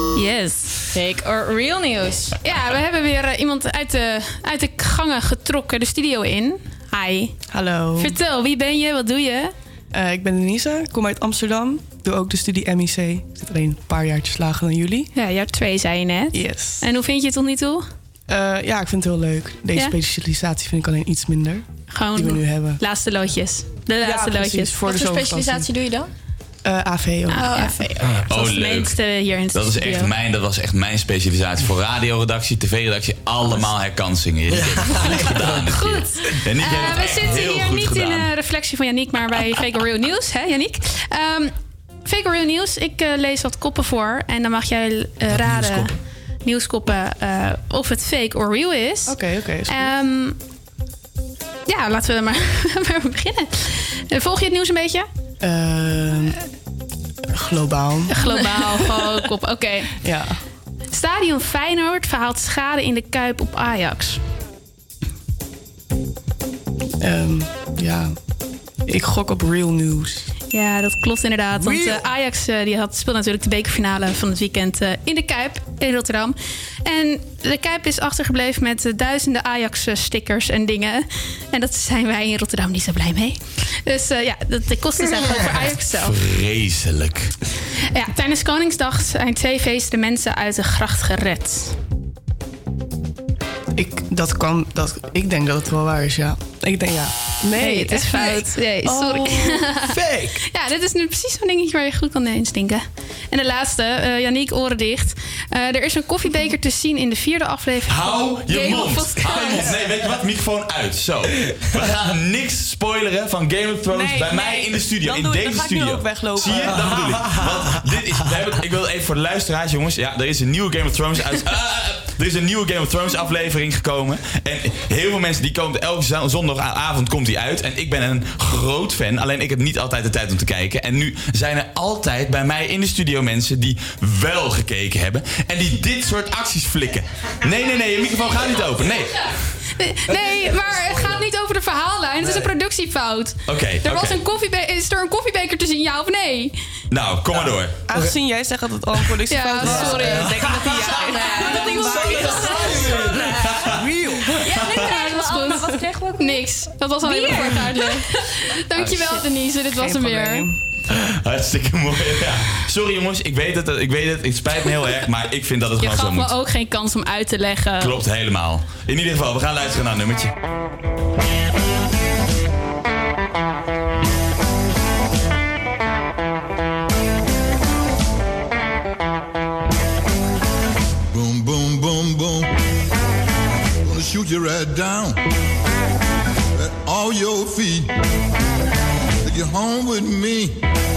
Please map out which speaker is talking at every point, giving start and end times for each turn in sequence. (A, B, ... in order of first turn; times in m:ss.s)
0:00.1-0:00.8 A
0:00.9-0:02.3 B
0:02.4-0:07.4 A
0:07.5-0:08.1 C
0:08.0-0:09.5 A
0:09.9-0:15.1 C
0:15.1-0:17.9 A
0:16.3-0:16.8 C
0:18.3-0:22.8 C
0:21.9-0:24.8 A
0:24.0-0:25.7 C
0:24.8-0:26.1 B
0:26.6-0:27.7 C
0:27.3-0:30.1 A
0:27.4-0:27.9 B
0:28.0-0:28.2 D
0:28.3-0:38.3 E
0:34.5-0:35.7 D
0:35.7-0:41.5 A
0:42.0-0:50.4 A
0:45.3-0:45.9 D
0:49.0-0:49.9 C
0:51.7-0:55.1 A
0:55.4-0:56.4 C
0:57.3-0:59.1 C
0:58.1-0:59.9 A
1:00.0-1:00.4 C
1:00.9-1:04.2 A
1:07.0-1:08.2 C
1:08.8-1:10.3 C
1:10.5-1:26.1 A
1:25.4-1:27.3 E
1:27.9-1:31.8 A
1:33.7-1:39.7 C
1:37.6-1:40.0 A
1:39.9-1:40.4 D
1:40.5-1:49.7 A
1:47.9-2:19.5 E
1:53.9-1:56.8 C
1:56.4-1:57.6 D
2:19.8-2:26.6 A
2:20.1-2:21.2 D
2:22.2-2:22.5 D
2:23.5-2:24.2 E
2:26.9-2:27.8 E
2:27.9-2:32.5 C
2:29.3-2:30.3 A
2:29.7-2:30.8 D
2:29.7-2:33.5 B
2:31.5-2:32.4 A
2:31.9-2:33.2 D
2:33.2-2:33.8 E
2:34.3-2:36.4 B
2:34.5-2:34.8 E
2:34.8-2:40.5 A
2:37.0-2:38.0 B
2:38.7-2:40.6 C
2:40.9-2:46.3 E
2:45.8-2:47.9 A
2:47.8-2:50.3 E
3:01.1-3:02.5 F
3:03.8-3:05.2 F
3:06.5-3:07.9 F
3:09.2-3:10.6 F